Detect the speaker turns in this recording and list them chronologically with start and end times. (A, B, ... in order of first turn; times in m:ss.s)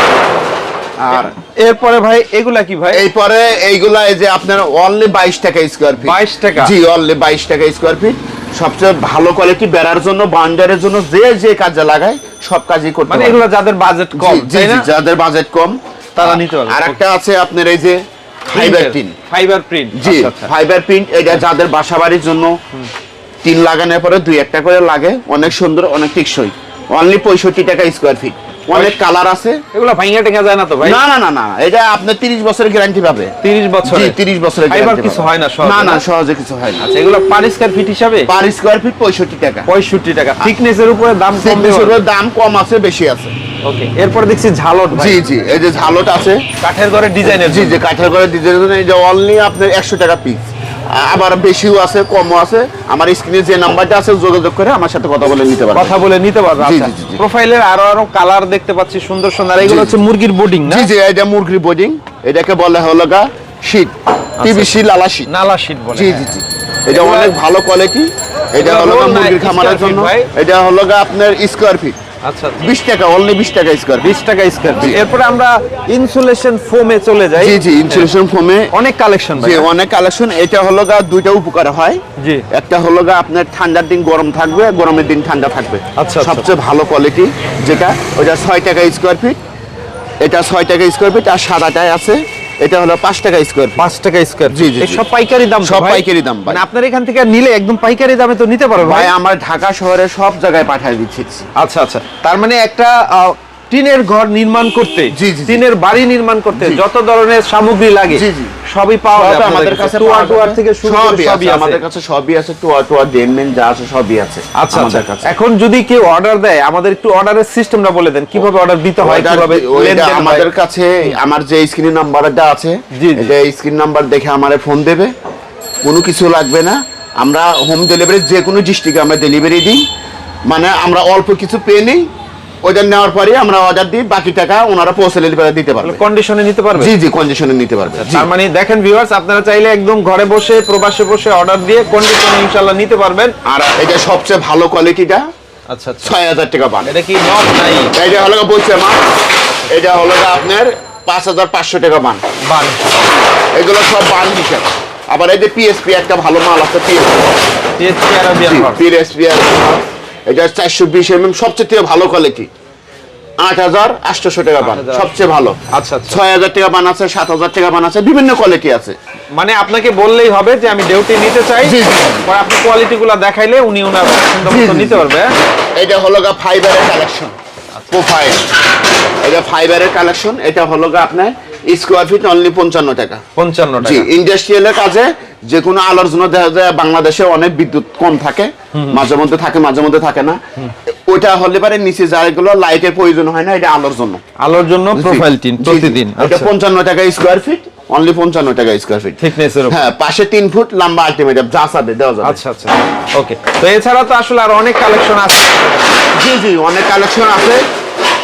0:01.0-0:01.3 A
0:01.1-0:03.0 B
0:02.9-0:13.4 A
0:06.0-0:06.7 B
0:13.1-0:14.9 B
0:14.2-0:19.2 A
0:16.2-0:17.0 B
0:18.5-0:20.5 B
0:20.0-0:22.6 A
0:23.4-0:29.6 A
0:28.7-0:29.0 B
0:29.7-0:31.0 B
0:30.8-0:36.9 A
0:33.4-0:34.2 B
0:34.7-0:36.0 B
0:36.8-0:38.3 B
0:38.3-0:39.7 A
0:39.7-0:42.0 B
0:41.3-0:43.3 A
0:43.6-0:45.2 B
0:44.9-0:46.4 A
0:46.6-0:47.8 B
0:47.3-0:56.0 A
0:55.8-1:00.9 B
0:56.6-0:57.2 A
0:59.6-1:00.0 A
1:00.6-1:05.3 A
1:04.4-1:04.8 B
1:05.3-1:06.3 B
1:05.9-1:12.0 A
1:06.9-1:07.3 B
1:08.6-1:10.3 B
1:12.2-1:12.7 B
1:12.6-1:14.1 A
1:14.0-1:18.1 B
1:17.4-1:18.7 A
1:18.7-1:19.7 B
1:19.4-1:29.4 A
1:22.2-1:22.4 B
1:26.0-1:26.5 B
1:30.2-1:33.8 A
1:33.8-1:39.1 B
1:34.5-1:35.0 A
1:35.6-1:36.6 A
1:38.8-1:41.4 A
1:41.6-1:51.8 B
1:45.1-1:45.6 A
1:46.5-1:46.8 A
1:48.1-1:48.6 A
1:49.1-1:55.3 A
1:54.6-2:00.5 B
1:59.0-2:05.1 A
2:02.9-2:03.3 B
2:05.8-2:09.8 A
2:10.5-2:12.1 A
2:12.6-2:16.0 A
2:15.8-2:16.9 B
2:16.8-2:18.3 A
2:17.9-2:23.4 B
2:23.4-2:25.2 A
2:25.7-2:26.1 B
2:26.0-2:26.9 A
2:26.9-2:28.0 B
2:27.9-2:29.0 A
2:29.7-2:32.2 A
2:32.4-2:33.2 B
2:33.6-2:37.3 A
2:37.8-2:38.8 B
2:38.4-2:42.5 A
2:43.4-2:45.6 A
2:44.6-2:45.1 B
2:45.7-2:46.2 B
2:46.1-2:49.0 A
2:49.4-2:55.3 B
2:51.6-2:52.3 A
2:54.4-2:55.1 A
2:55.8-2:57.4 A
2:57.9-2:58.5 A
2:59.2-3:03.2 A
3:03.4-3:04.1 B
3:03.8-3:14.2 A
3:08.7-3:09.0 B
3:14.4-3:16.5 B
3:14.9-3:22.4 A
3:19.2-3:19.8 B
3:22.2-3:25.9 B
3:26.2-3:27.6 A